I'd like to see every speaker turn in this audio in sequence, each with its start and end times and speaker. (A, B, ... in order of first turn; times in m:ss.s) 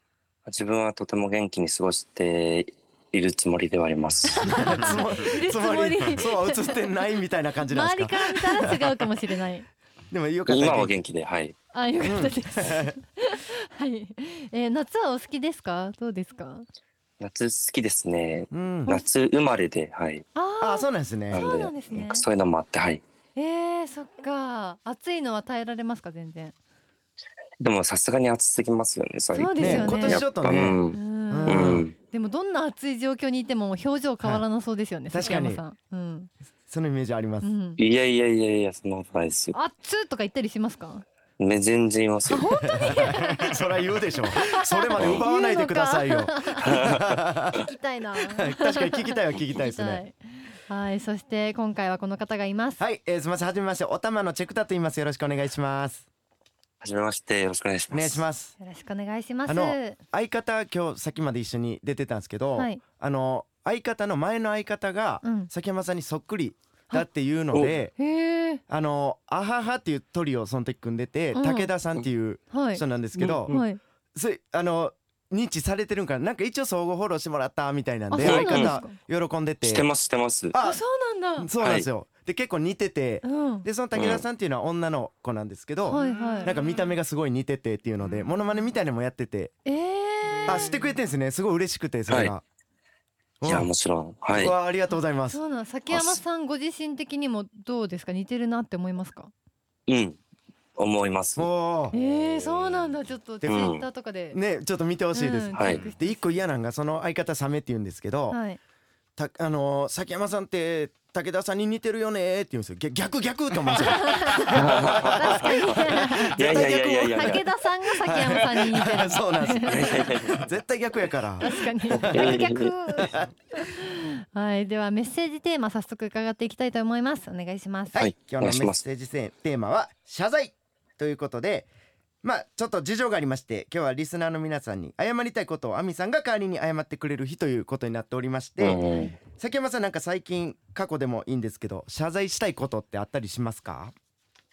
0:00.4-0:04.7 A
0:04.3-0:06.8 B
0:04.4-0:08.9 C
0:07.7-0:09.7 B
0:10.1-0:11.0 C
0:10.5-0:11.6 A
0:11.7-0:16.6 B
0:12.0-0:12.9 C
0:17.2-0:20.2 A
0:18.5-0:19.0 C
0:20.3-0:22.2 B
0:20.6-0:21.4 C
0:21.3-0:23.0 A
0:23.4-0:26.5 B
0:27.6-0:31.9 A
0:29.3-0:30.2 B
0:29.6-0:31.8 C
0:30.9-0:36.3 B
0:35.1-0:35.6 C
0:36.7-0:37.5 C
0:37.4-0:37.8 B
0:37.8-0:39.6 A
0:39.5-0:41.0 B
0:41.4-0:42.5 A
0:42.3-0:43.6 B
0:42.7-0:47.6 C
0:44.4-0:46.8 B
0:45.0-0:45.2 A
0:46.6-0:47.0 A
0:47.5-0:48.9 B
0:48.3-0:50.0 C
0:49.4-0:52.8 B
0:52.8-0:56.0 C
0:56.8-0:58.2 A
0:57.9-0:58.5 C
0:58.6-1:00.0 B
0:59.4-1:07.9 C
1:05.2-1:05.5 B
1:07.5-1:07.8 A
1:08.0-1:08.6 B
1:08.7-1:13.6 C
1:11.3-1:11.7 B
1:12.5-1:12.8 B
1:13.2-1:13.6 A
1:13.4-1:13.8 B
1:14.1-1:19.9 C
1:18.1-1:18.9 B
1:18.2-1:18.8 A
1:19.6-1:20.5 A
1:20.5-1:20.8 C
1:20.6-1:21.5 B
1:21.4-1:29.5 C
1:21.6-1:21.9 A
1:23.2-1:23.6 B
1:23.9-1:24.2 A
1:25.9-1:26.6 B
1:29.6-1:30.7 B
1:30.5-1:32.4 C
1:32.1-1:32.3 A
1:33.4-1:33.7 C
1:33.4-1:34.5 A
1:34.3-1:35.4 C
1:35.3-1:39.3 B
1:35.9-1:36.2 A
1:39.9-1:40.2 A
1:40.8-1:42.9 A
1:41.4-1:42.0 C
1:41.9-1:44.4 B
1:43.4-1:43.8 A
1:44.3-1:48.4 C
1:45.1-1:46.2 B
1:45.5-1:45.8 A
1:48.3-1:48.6 B
1:49.2-1:57.4 C
1:53.8-1:56.6 B
1:54.5-1:57.4 A
1:57.1-2:00.0 B
1:58.0-2:03.3 C
1:59.6-2:00.3 A
2:01.4-2:08.0 B
2:02.1-2:02.7 A
2:07.9-2:11.7 C
2:08.0-2:08.8 A
2:12.2-2:23.9 C
2:18.6-2:19.1 A